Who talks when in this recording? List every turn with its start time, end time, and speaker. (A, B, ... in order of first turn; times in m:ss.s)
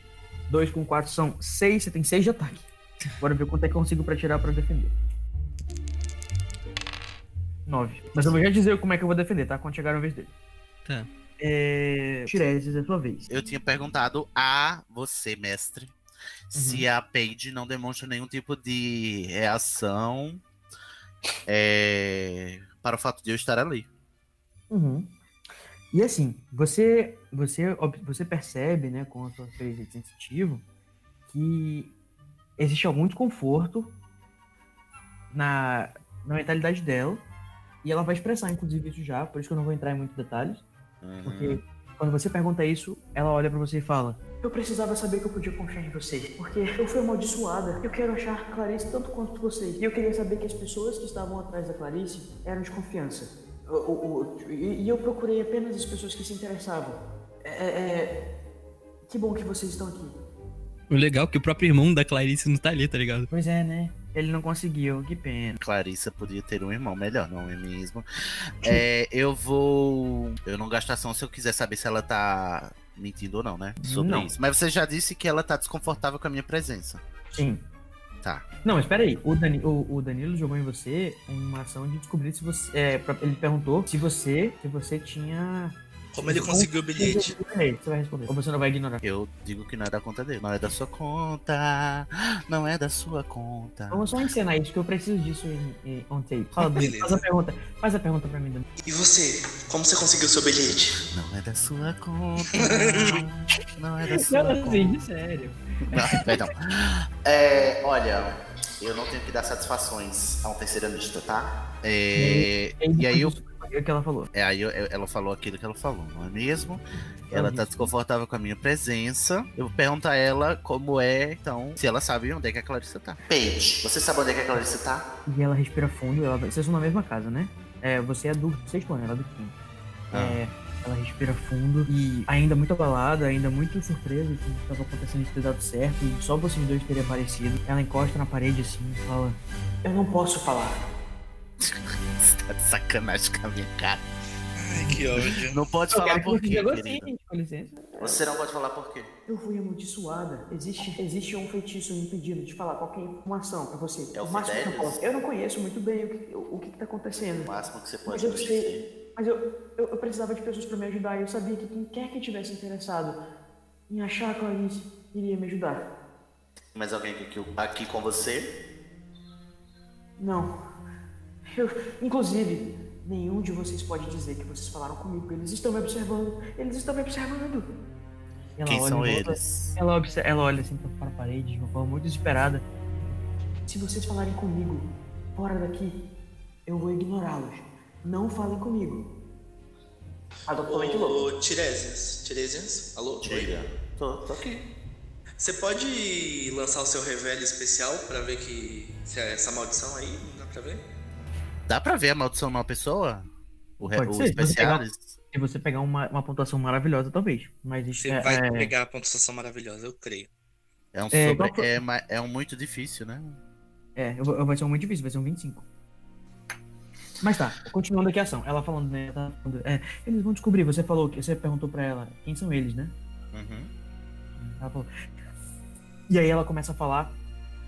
0:00.5-0:04.9 A
0:07.6-0:10.3 A
0:11.4-0:13.3 A
0:13.3-0:16.0 B
0:16.5-0:20.4 B
0:16.5-0:16.9 A
0:21.5-0:23.9 B
0:24.7-0:25.1 A
0:25.9-0:30.6 A
0:31.3-0:31.9 A
0:32.6-0:34.0 A
0:35.3-0:37.2 A
0:37.8-0:40.6 A
0:41.0-0:41.6 B
0:41.2-0:58.2 A
0:59.0-1:00.2 A
1:00.9-1:03.3 C
1:03.3-1:05.6 A
1:05.6-1:08.1 B
1:08.6-1:17.0 B
1:13.8-1:14.3 A
1:17.3-1:17.6 A
1:18.6-1:29.0 A
1:26.1-1:27.4 D
1:29.0-1:34.1 B
1:33.9-1:38.6 A
1:36.6-1:37.2 D
1:38.8-1:40.9 D
1:41.1-1:44.9 B
1:42.5-1:43.2 D
1:44.1-1:46.2 A
1:45.9-1:53.4 B
1:52.2-1:54.3 A
1:54.3-2:05.0 B
1:57.3-1:57.9 A
2:05.2-2:09.5 A
2:10.1-2:10.4 B
2:10.1-2:20.8 A
2:21.6-2:24.0 B
2:24.6-2:25.6 D
2:25.5-2:27.1 B
2:25.9-2:28.2 A
2:28.0-2:29.1 B
2:29.3-2:37.5 A
2:34.1-2:35.0 B
2:37.4-2:38.8 B
2:38.0-2:43.2 A
2:43.9-2:45.9 A
2:46.7-2:48.5 B
2:50.2-2:50.6 A
2:51.5-2:57.7 A
2:58.6-3:02.6 A
2:58.6-2:59.8 B
3:03.7-3:06.0 A
3:06.6-3:09.1 A
3:10.5-3:11.3 A
3:10.6-3:13.5 D
3:13.2-3:14.6 B
3:15.4-3:20.8 D
3:21.7-3:23.3 B
3:23.8-3:25.1 B
3:23.9-3:28.7 A
3:27.9-3:30.3 D
3:30.9-3:33.4 B
3:31.1-3:31.7 A
3:34.0-3:35.6 A
3:37.2-3:43.0 A
3:43.3-3:43.7 B
3:44.4-3:44.9 A
3:46.1-3:47.2 A